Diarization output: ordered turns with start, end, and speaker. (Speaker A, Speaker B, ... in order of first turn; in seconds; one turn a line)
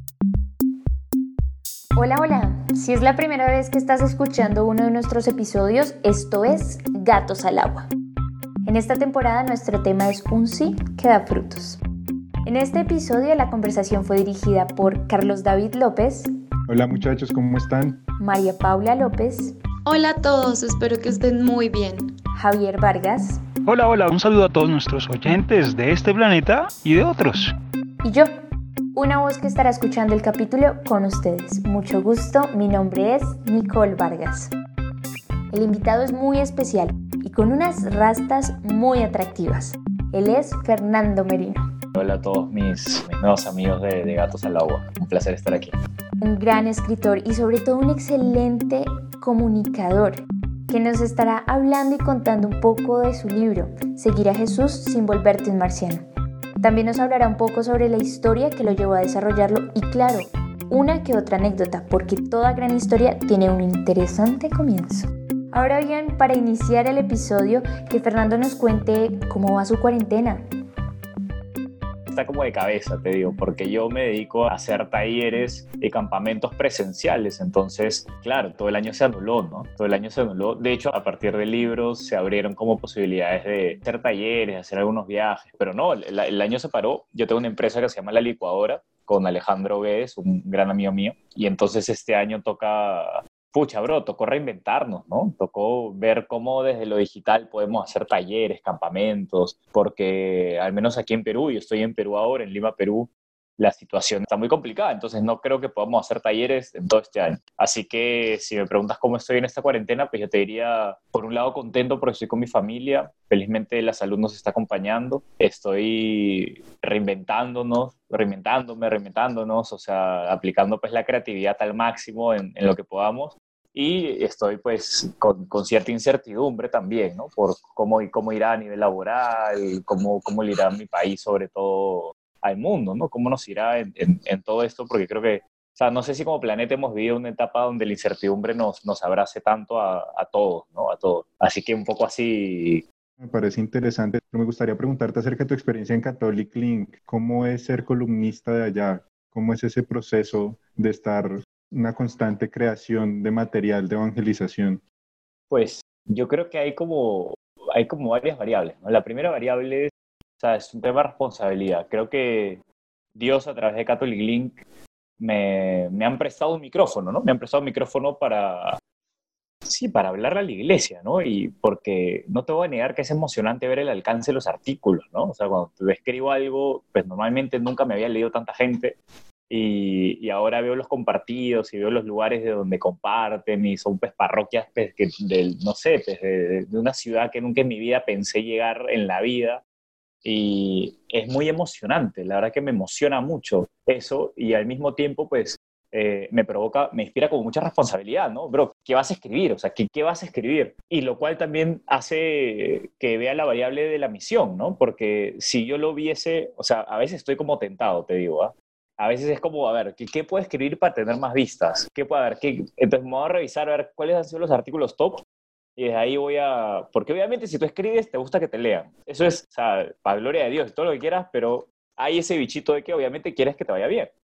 Speaker A: 1.9-7.9
Speaker A: 8.6-11.8
Speaker A: 12.4-16.3
Speaker B: 16.7-18.0
Speaker A: 18.2-19.6
Speaker C: 19.9-22.1
Speaker A: 22.4-23.4
Speaker D: 23.7-27.5
Speaker A: 28.0-28.3
Speaker A: 28.9-34.5
Speaker A: 35.5-41.7
Speaker E: 41.9-45.8
Speaker A: 46.2-56.0
Speaker A: 56.6-70.4
Speaker E: 72.1-103.1
Speaker E: 103.6-142.8
Speaker B: 143.2-154.8
Speaker E: 155.5-162.6
Speaker E: 163.2-164.6
Speaker E: 165.2-168.8
Speaker E: 169.7-179.0
Speaker E: 179.5-189.6
Speaker E: 190.2-215.2
Speaker E: 215.8-224.1